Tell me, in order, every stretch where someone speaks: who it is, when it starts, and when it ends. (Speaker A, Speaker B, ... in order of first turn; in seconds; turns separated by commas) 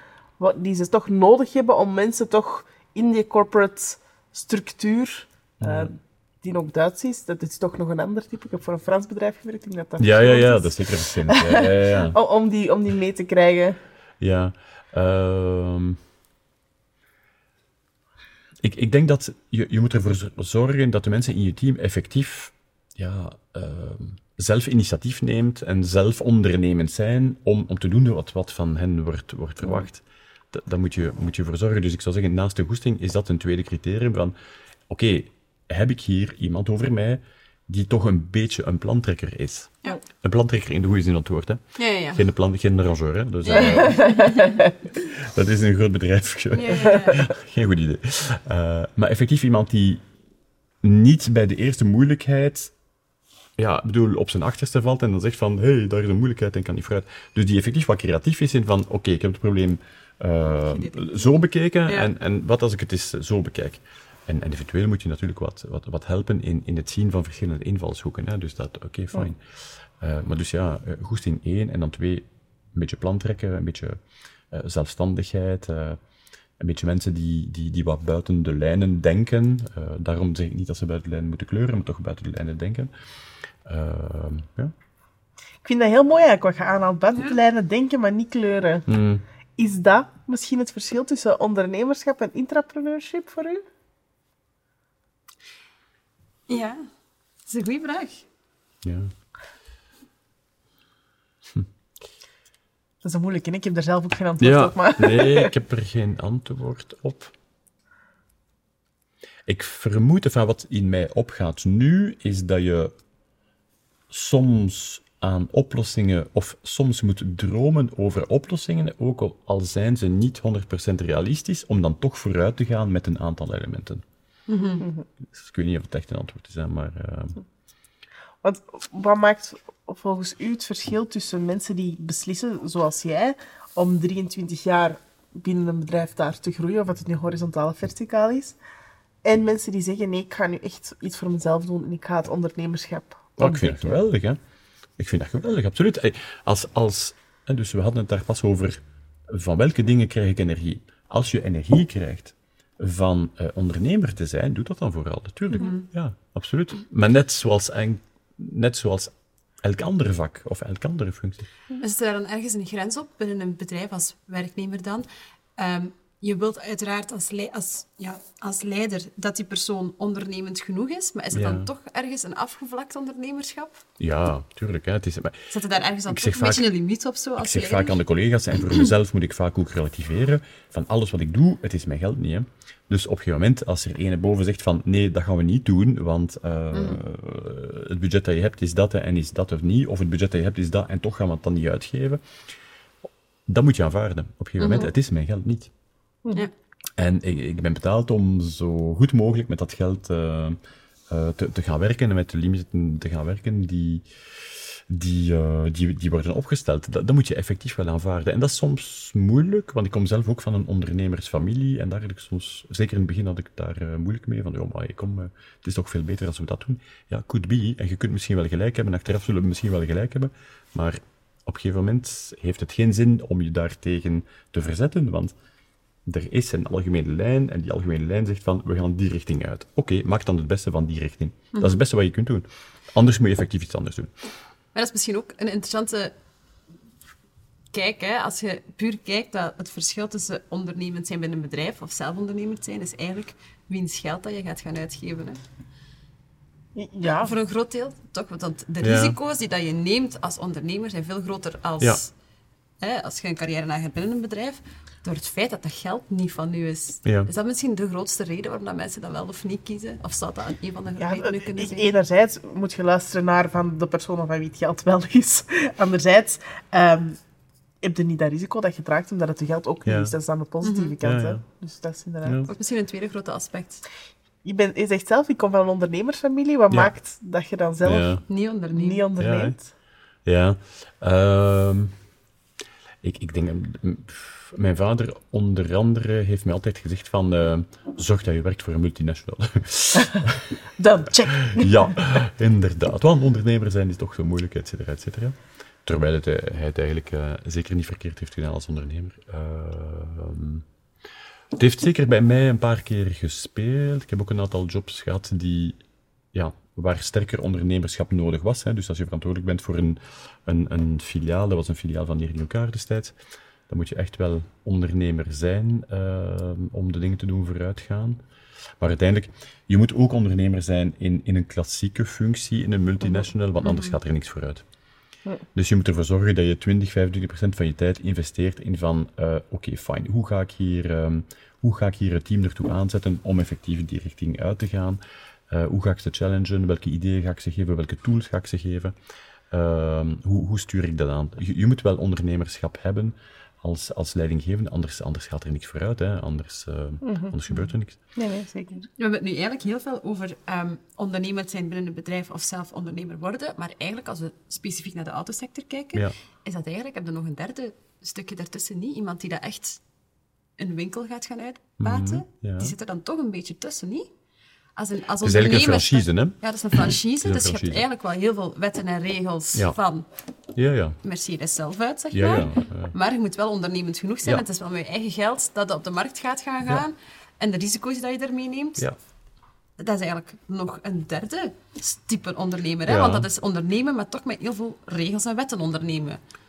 Speaker A: 0.4-13.8, Speaker B: 5.6-5.9, Speaker B: 10.0-12.2, Speaker B: 14.2-16.0, Speaker B: 18.6-34.3, Speaker B: 34.9-41.6, Speaker C: 41.8-42.2, Speaker B: 42.1-44.1, Speaker C: 43.4-44.6, Speaker A: 43.6-44.7, Speaker B: 45.0-50.0, Speaker C: 46.5-47.2, Speaker B: 50.8-52.7, Speaker B: 53.6-74.0, Speaker C: 60.6-61.3, Speaker B: 74.5-76.0, Speaker B: 76.6-82.9, Speaker B: 83.6-84.7, Speaker A: 85.6-88.9, Speaker B: 88.9-89.2, Speaker A: 89.6-93.6, Speaker C: 96.5-96.8, Speaker C: 97.5-98.2, Speaker B: 98.8-99.1, Speaker A: 103.0-105.5, Speaker B: 104.4-107.3, Speaker B: 109.5-112.9, Speaker B: 114.1-124.0, Speaker C: 124.5-124.8, Speaker A: 124.8-125.0, Speaker B: 125.2-127.4, Speaker A: 128.4-138.6, Speaker A: 139.2-144.0, Speaker B: 143.4-144.4, Speaker B: 145.0-161.5, Speaker C: 155.5-155.8, Speaker C: 161.8-165.1, Speaker C: 165.6-173.8, Speaker B: 171.3-171.7, Speaker B: 174.0-175.5, Speaker C: 175.5-178.0, Speaker B: 176.1-176.7, Speaker B: 177.4-192.2, Speaker C: 186.7-187.0, Speaker B: 193.5-195.7, Speaker C: 194.6-194.9, Speaker B: 197.0-225.3, Speaker B: 226.0-234.1, Speaker C: 231.5-231.8, Speaker C: 234.7-236.1, Speaker C: 237.7-245.4, Speaker A: 246.7-247.3, Speaker C: 247.2-252.1, Speaker B: 248.8-249.2, Speaker C: 252.8-261.9, Speaker B: 257.0-257.3, Speaker A: 261.0-267.2, Speaker A: 267.8-272.4, Speaker B: 269.8-270.1, Speaker C: 270.6-270.9, Speaker B: 271.0-271.4, Speaker B: 272.2-272.5, Speaker C: 272.5-273.8, Speaker A: 274.4-278.2, Speaker B: 277.8-278.2, Speaker C: 278.3-279.1, Speaker A: 278.7-279.7, Speaker B: 279.2-279.6, Speaker B: 280.2-281.9, Speaker B: 283.0-290.6, Speaker A: 290.8-292.0, Speaker B: 291.4-300.6, Speaker B: 301.5-305.8, Speaker B: 306.3-313.1, Speaker B: 313.7-318.2, Speaker B: 318.8-324.6, Speaker C: 323.6-324.0, Speaker B: 325.5-338.9, Speaker B: 339.5-348.0, Speaker A: 347.0-347.4, Speaker A: 348.1-348.9, Speaker C: 349.0-359.8, Speaker C: 360.6-364.1, Speaker B: 361.8-362.7, Speaker C: 364.8-370.1, Speaker B: 365.2-367.8, Speaker B: 370.5-371.0, Speaker C: 371.0-378.9, Speaker B: 372.1-372.9, Speaker C: 379.8-386.2, Speaker B: 382.9-383.3